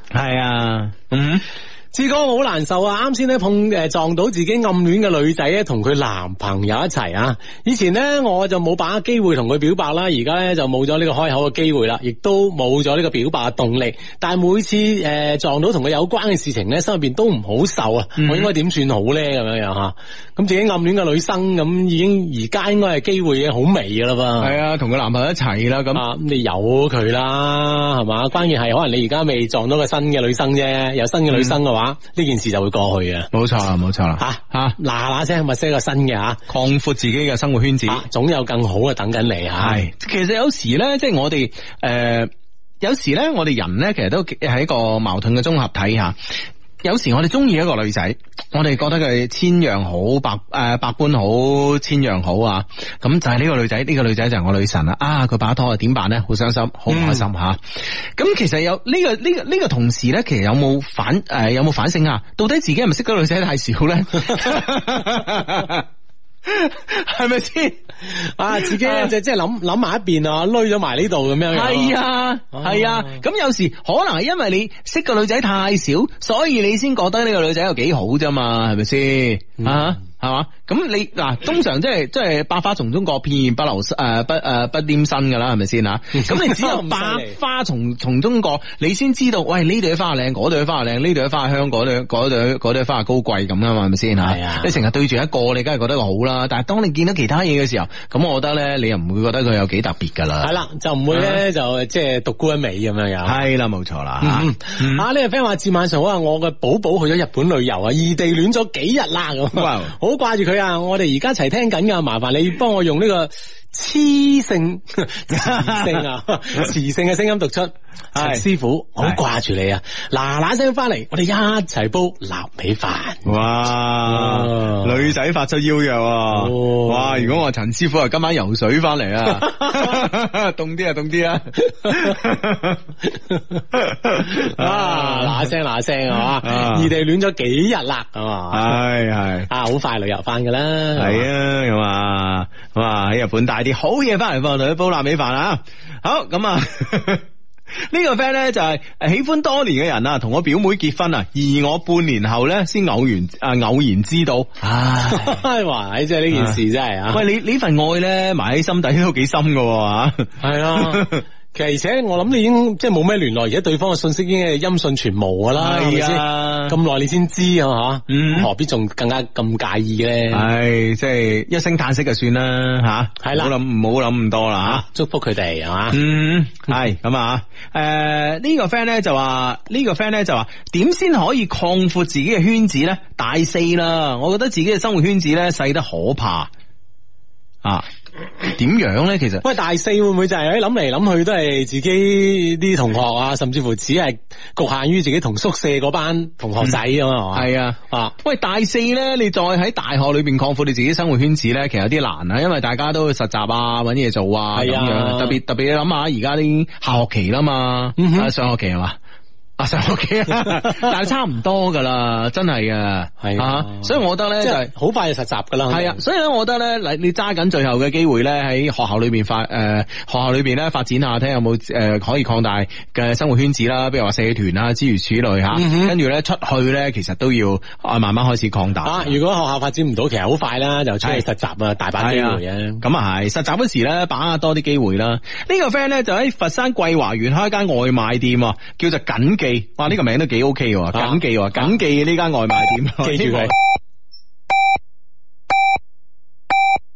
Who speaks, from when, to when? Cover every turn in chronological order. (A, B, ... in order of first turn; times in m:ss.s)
0:00.1-0:01.4 A
0:01.9-0:24.6 B
0:18.2-0:18.5 A
0:24.4-0:26.0 A
0:25.9-0:33.3 B
0:31.3-0:31.6 A
0:33.3-0:34.8 A
0:34.2-0:36.4 B
0:36.5-0:38.0 A
0:37.9-0:39.8 B
0:39.6-1:05.9 A
0:56.9-0:57.3 B
1:06.4-1:07.8 A
1:08.1-1:12.0 B
1:08.5-1:09.1 A
1:11.5-1:40.5 A
1:12.6-1:13.2 B
1:19.6-1:19.9 B
1:26.2-1:27.4 B
1:34.2-1:34.7 B
1:40.4-1:43.4 B
1:41.1-1:41.4 A
1:43.2-1:45.1 A
1:44.2-2:03.3 B
1:49.5-1:49.9 A
1:55.3-1:56.0 A
1:58.1-1:58.4 A
2:03.2-2:12.8 A
2:04.1-2:04.9 B
2:06.3-2:07.4 B
2:11.6-2:12.2 B
2:13.2-2:13.6 B
2:13.7-2:15.5 A
2:14.2-2:18.8 B
2:16.3-2:16.9 A
2:18.5-2:19.5 A
2:19.5-2:21.3 B
2:21.0-2:27.2 A
2:27.8-2:35.4 A
2:35.1-2:37.2 B
2:36.3-2:36.6 A
2:37.1-2:41.2 A
2:40.4-2:50.5 B
2:45.6-2:46.8 A
2:48.1-2:48.5 A
2:50.3-2:54.8 A
2:53.2-2:53.5 B
2:54.6-2:56.0 B
2:55.9-3:06.5 A
3:08.4-3:09.4 A
3:09.4-3:18.2 B
3:17.3-3:29.0 A
3:24.5-3:25.4 B
3:28.0-3:28.3 B
3:29.6-3:34.7 A
3:33.2-3:36.0 B
3:35.7-3:49.2 A
3:45.5-3:46.0 B
3:48.8-3:52.8 B
3:52.0-4:03.6 A
4:00.9-4:01.8 B
4:03.0-4:03.6 B